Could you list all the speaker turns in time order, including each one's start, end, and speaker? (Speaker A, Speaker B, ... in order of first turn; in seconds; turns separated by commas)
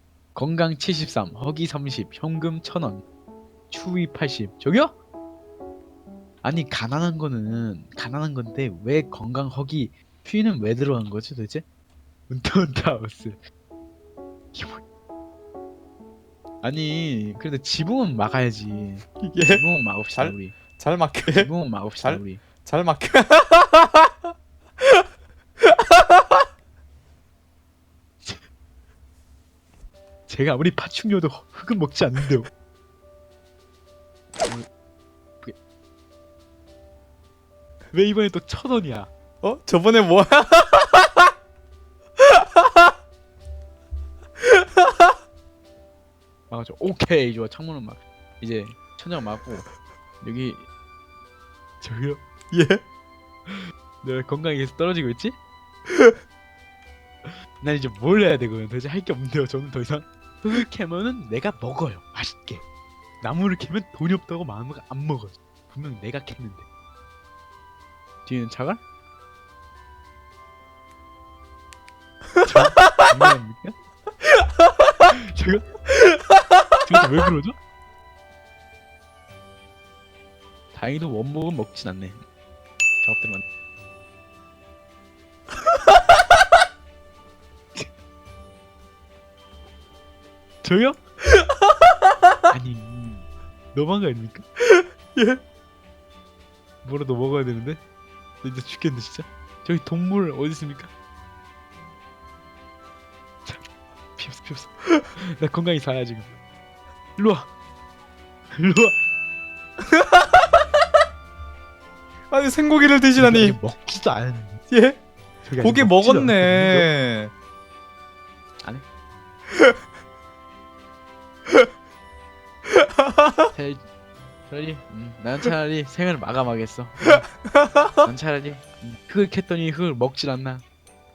Speaker A: 0.3-3.0, Speaker A: 3.7-5.0, Speaker A: 6.4-11.7, Speaker A: 12.3-13.4, Speaker A: 14.5-14.8, Speaker A: 16.6-20.6, Speaker B: 19.2-21.5, Speaker A: 21.3-22.4, Speaker B: 22.0-24.1, Speaker B: 25.6-26.4, Speaker A: 30.3-32.5, Speaker A: 37.9-39.1, Speaker B: 39.4-41.3, Speaker B: 42.2-42.9, Speaker B: 44.4-45.1, Speaker A: 46.5-49.7, Speaker A: 50.2-50.7, Speaker A: 51.8-52.2, Speaker B: 52.5-52.8, Speaker A: 53.5-55.4, Speaker B: 55.9-56.2, Speaker A: 57.2-62.6, Speaker A: 63.2-66.7, Speaker A: 68.3-68.8, Speaker B: 72.4-73.0, Speaker A: 72.5-73.8, Speaker A: 75.2-75.7, Speaker B: 75.9-76.6, Speaker A: 76.9-77.6, Speaker A: 80.7-82.2, Speaker A: 83.0-83.4, Speaker B: 85.6-86.5, Speaker A: 90.6-91.0, Speaker B: 91.3-92.3, Speaker A: 92.5-94.5, Speaker B: 94.7-95.4, Speaker A: 96.8-97.8, Speaker A: 98.4-100.9, Speaker A: 104.2-106.3, Speaker A: 107.2-107.5, Speaker A: 108.5-109.0, Speaker B: 109.8-110.7, Speaker B: 112.3-113.6, Speaker A: 113.2-114.6, Speaker B: 114.7-115.0, Speaker A: 115.5-116.9, Speaker B: 115.6-117.3, Speaker B: 119.5-119.8, Speaker B: 122.7-123.5, Speaker A: 123.5-123.8, Speaker A: 124.5-127.3, Speaker B: 127.1-128.1, Speaker A: 128.0-130.7